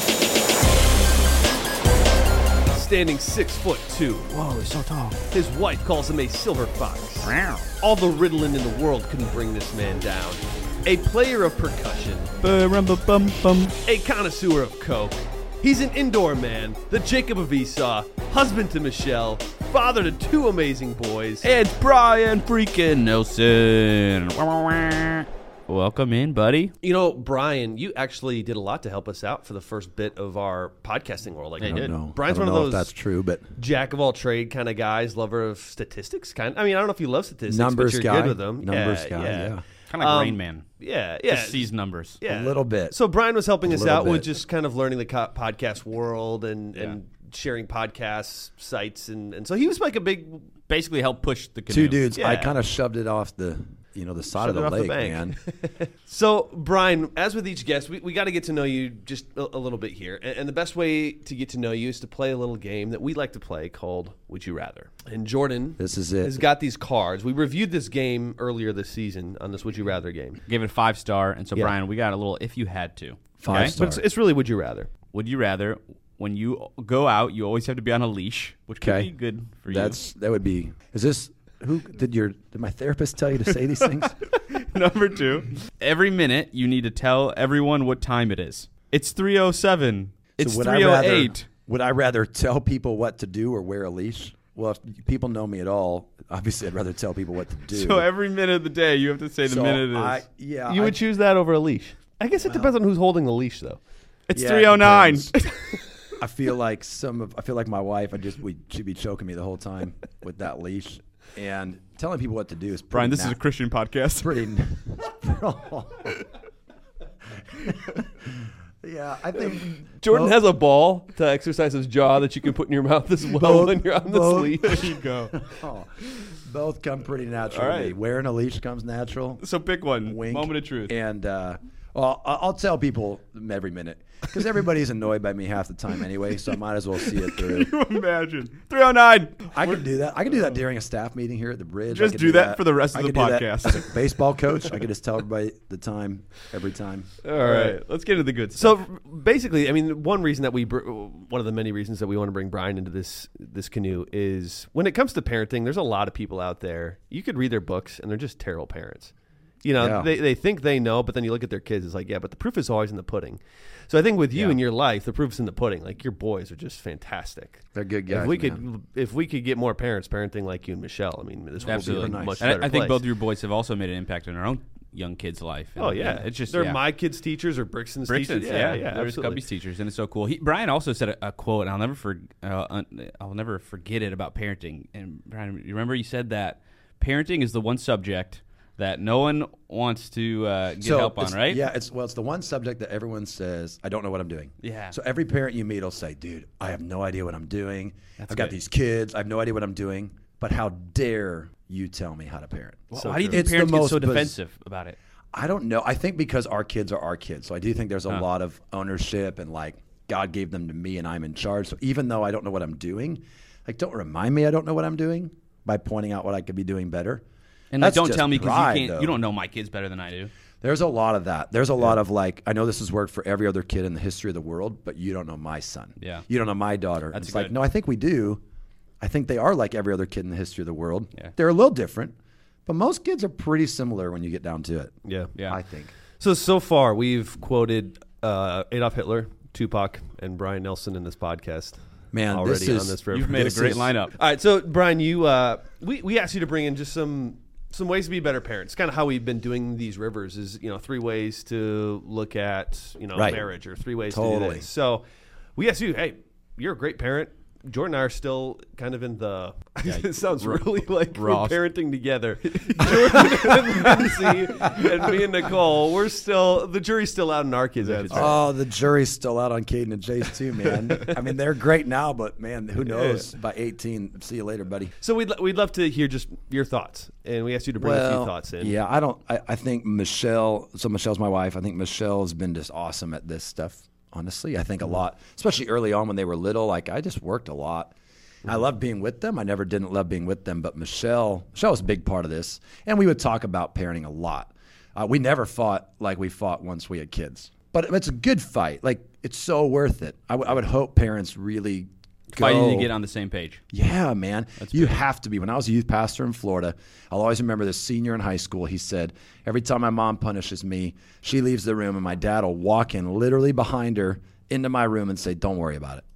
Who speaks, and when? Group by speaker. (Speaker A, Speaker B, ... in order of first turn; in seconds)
Speaker A: 2.7-4.3, 5.3-12.3, 13.8-21.5, 26.8-32.9, 33.5-41.7, 42.2-50.5, 52.1-52.6, 54.3-70.4, 73.5-74.9, 100.7-103.8, 119.6-124.9, 147.2-147.8, 148.6-173.0, 175.8-179.4, 202.9-203.4, 235.0-235.3, 236.2-243.5, 244.1-255.0, 255.6-268.4, 272.8-273.3, 275.0-278.8
Speaker B: 4.3-5.2, 7.2-7.7, 12.4-13.8, 21.4-26.7, 31.6-31.9, 39.9-40.7, 41.3-42.2, 50.7-52.1, 70.5-73.7, 75.1-80.0, 83.8-91.5, 97.7-100.2, 104.3-105.7, 112.9-114.5, 124.6-125.4, 126.1-126.3, 127.5-127.9, 129.4-130.9, 137.1-139.8, 141.9-144.2, 147.3-148.8, 164.3-164.6, 171.6-176.8, 178.1-191.6, 194.6-194.9, 198.2-198.5, 202.9-204.9, 217.7-220.3, 226.0-226.2, 227.1-227.5, 243.1-244.1, 259.8-261.6, 262.5-264.1, 267.8-268.4, 302.4-303.6, 304.6-305.0
Speaker C: 31.6-33.5, 37.5-39.6, 42.2-42.9, 43.6-44.3, 51.7-55.4, 65.8-66.4, 73.4-74.0, 78.8-79.1, 79.7-84.1, 90.4-98.1, 99.4-101.0, 102.4-102.7, 104.3-105.3, 106.2-113.4, 114.2-116.2, 117.3-120.3, 123.4-129.4, 130.1-137.7, 139.5-147.1, 159.8-160.1, 167.7-168.6, 171.6-172.5, 190.8-204.3, 205.3-217.2, 217.8-219.2, 220.6-228.4, 229.0-232.1, 232.7-235.9, 242.1-243.9, 253.2-253.4, 254.1-254.7, 268.1-274.9, 277.8-302.9, 303.7-316.0